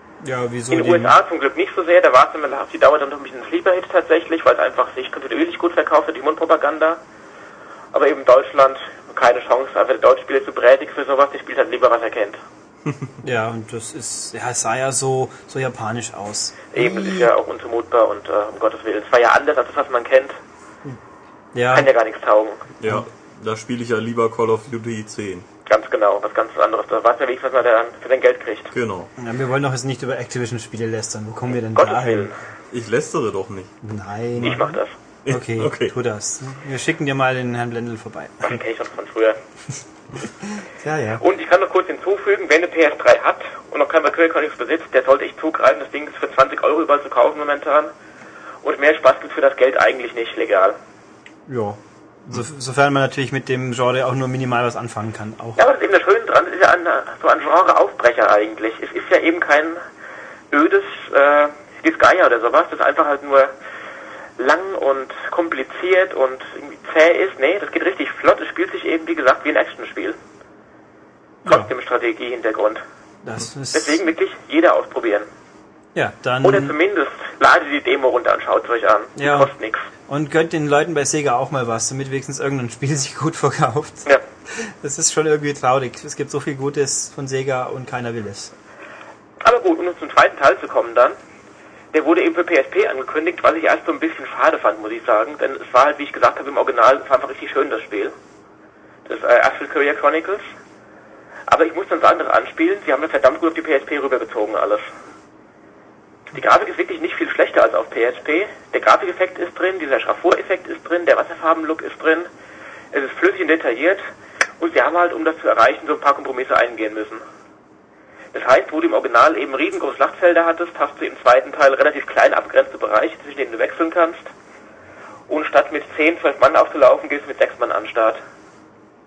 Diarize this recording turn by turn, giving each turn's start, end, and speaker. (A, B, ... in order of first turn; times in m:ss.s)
0:00.2-0:01.2 A
0:00.7-0:07.0 B
0:07.9-0:12.4 B
0:12.9-0:13.2 C
0:13.2-0:17.3 A
0:16.7-0:20.4 B
0:21.5-0:21.9 A
0:21.7-0:22.7 B
0:22.8-0:25.5 C
0:25.7-0:28.7 B
0:28.7-0:29.1 C
0:29.2-0:32.3 A
0:31.8-0:32.4 B
0:32.7-0:33.7 C
0:33.8-0:38.6 A
0:34.4-0:34.9 B
0:35.2-0:35.9 C
0:38.4-0:39.4 B
0:40.6-0:41.2 A
0:41.2-0:47.9 B
0:48.6-0:50.8 B
0:51.5-0:55.6 A
0:55.6-0:59.8 B
1:00.5-1:03.5 B
1:04.4-1:10.2 B
1:11.4-1:11.7 A
1:11.5-1:12.8 B
1:13.2-1:14.1 A
1:13.7-1:15.3 B
1:16.0-1:16.8 A
1:16.4-1:19.9 B
1:19.2-1:19.5 A
1:20.1-1:28.5 A
1:29.4-1:31.2 B
1:31.9-1:38.1 B
1:39.1-1:40.4 B
1:41.5-1:44.9 B
1:46.3-1:52.3 B
1:52.9-1:54.0 B
1:54.6-1:57.2 B
1:58.3-2:04.3 B
2:05.3-2:08.2 B